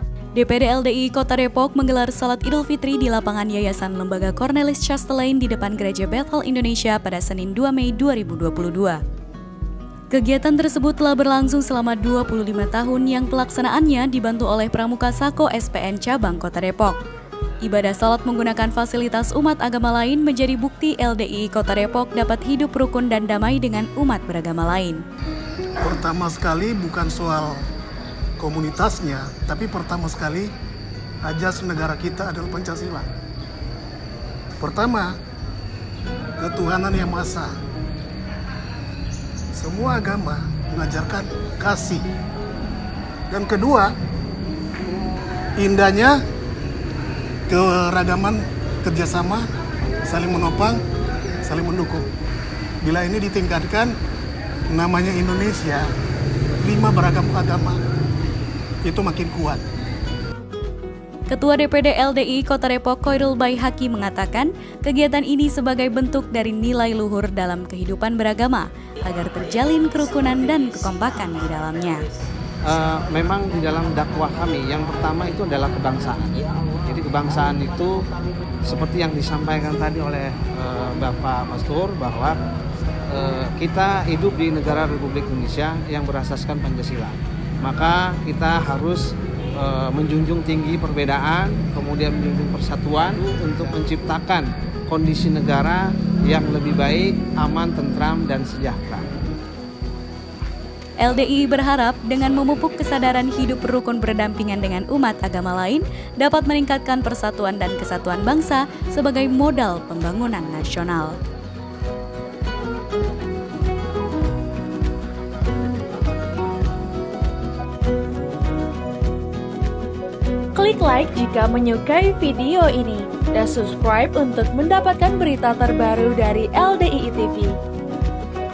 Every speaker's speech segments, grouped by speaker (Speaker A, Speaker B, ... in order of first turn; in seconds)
Speaker A: 0.3-9.0, 10.1-17.0, 17.6-25.0, 61.3-72.0, 101.0-111.2
Speaker B: 25.8-27.6, 28.4-30.5, 31.2-33.1, 34.6-35.1, 36.4-37.5, 39.5-42.1, 43.3-43.9, 45.6-46.2, 47.5-49.5, 50.0-50.8, 51.4-52.1, 52.8-53.9, 54.7-55.9, 56.6-57.8, 58.8-59.6
Speaker C: 72.6-78.0, 78.6-82.3, 83.1-89.0, 89.5-99.1
Speaker D: 120.5-127.6